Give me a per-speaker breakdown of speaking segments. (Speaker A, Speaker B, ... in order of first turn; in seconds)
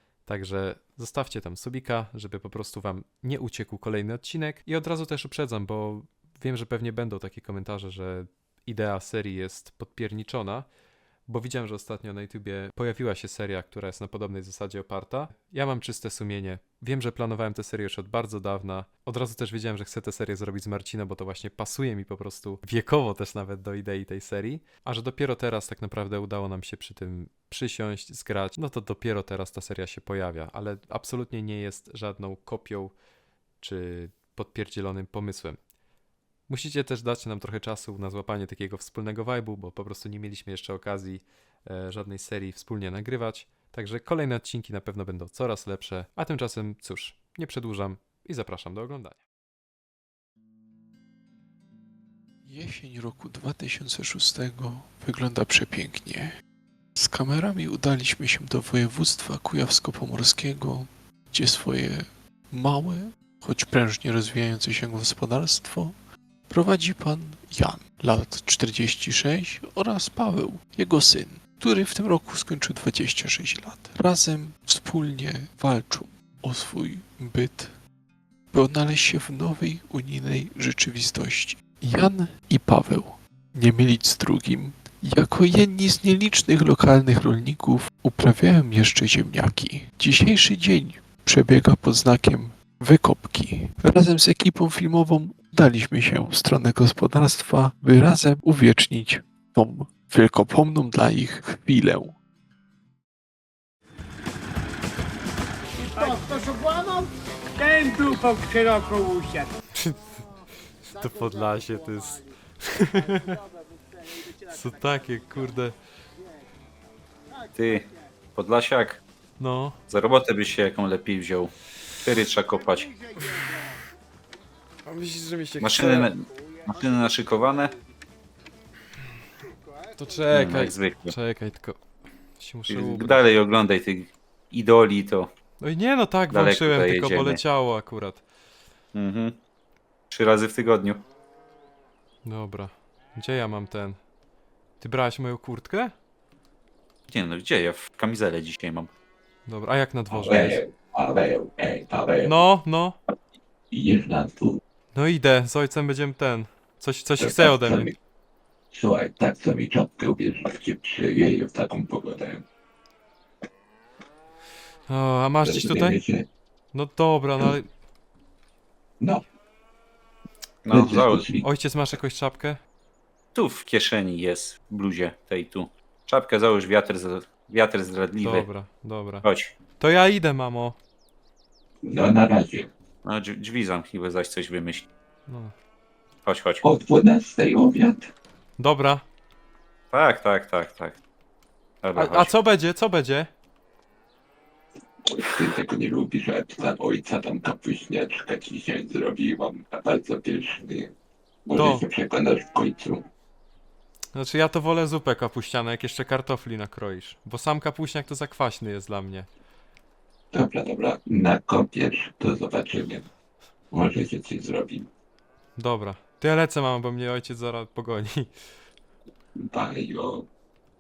Speaker A: 0.2-10.7, 11.3-32.9, 33.6-35.6, 36.5-49.2, 109.7-110.2, 110.8-113.4, 114.4-115.8, 119.4-119.8, 123.2-123.7, 124.8-126.1, 130.0-131.8, 132.4-133.3, 135.6-138.2, 142.2-144.0, 144.8-145.9, 149.5-150.6, 152.2-153.0, 154.9-157.9, 164.9-166.0, 166.7-167.7, 171.4-172.6, 178.2-179.3, 179.8-180.8, 185.3-185.5, 188.6-189.1, 191.9-193.3, 201.5-201.8, 204.1-209.3, 215.6-218.3
Speaker B: 52.5-56.4, 57.0-66.0, 66.5-77.8, 78.5-102.2
Speaker C: 105.8-109.5
Speaker D: 117.6-119.0, 119.9-123.0, 125.6-127.8, 130.3-131.2, 132.7-135.3, 136.3-137.4, 138.9-139.4, 140.1-141.0, 147.1-148.9, 170.7-171.2, 173.3-178.5, 179.2-179.5, 183.0-184.9, 186.3-186.6, 189.9-191.0, 191.8-192.3
Speaker E: 150.1-152.4, 153.7-154.6, 157.2-158.0, 158.7-162.4, 165.4-166.3, 169.0-169.2, 170.7-171.5, 181.8-182.7, 186.6-188.1, 195.1-200.9, 201.4-203.1, 210.3-213.1, 213.7-214.9, 219.4-220.3